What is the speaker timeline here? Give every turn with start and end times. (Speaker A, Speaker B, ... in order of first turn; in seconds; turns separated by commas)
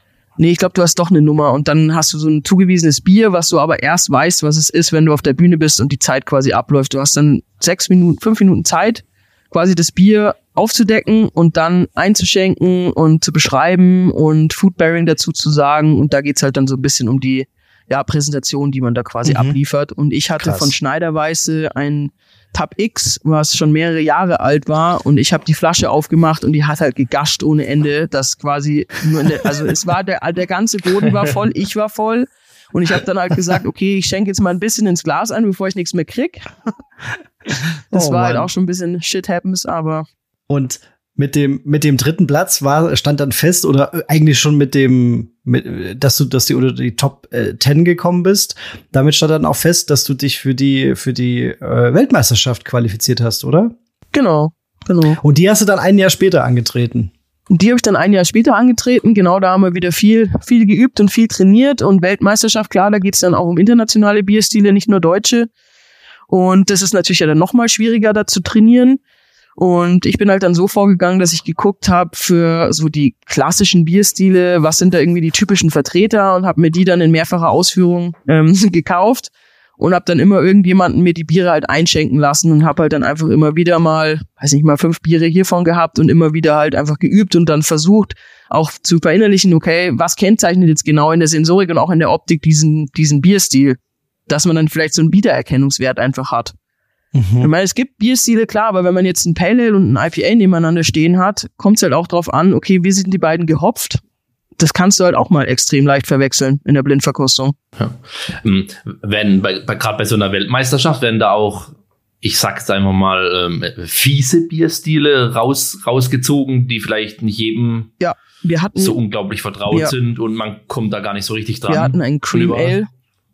Speaker A: 0.4-36.5, Speaker B: 19.2-19.6, Speaker B: 20.4-20.7, Speaker A: 37.9-40.0, Speaker B: 37.9-38.5, Speaker B: 40.5-53.7, Speaker A: 54.1-55.2, Speaker B: 55.2-57.1, Speaker A: 57.5-65.5, Speaker A: 66.3-69.0, Speaker A: 69.6-96.5, Speaker B: 97.1-97.5, Speaker A: 97.4-104.0, Speaker A: 104.6-107.5, Speaker C: 107.8-117.9, Speaker A: 118.0-119.0, Speaker C: 118.8-122.8, Speaker A: 121.7-122.9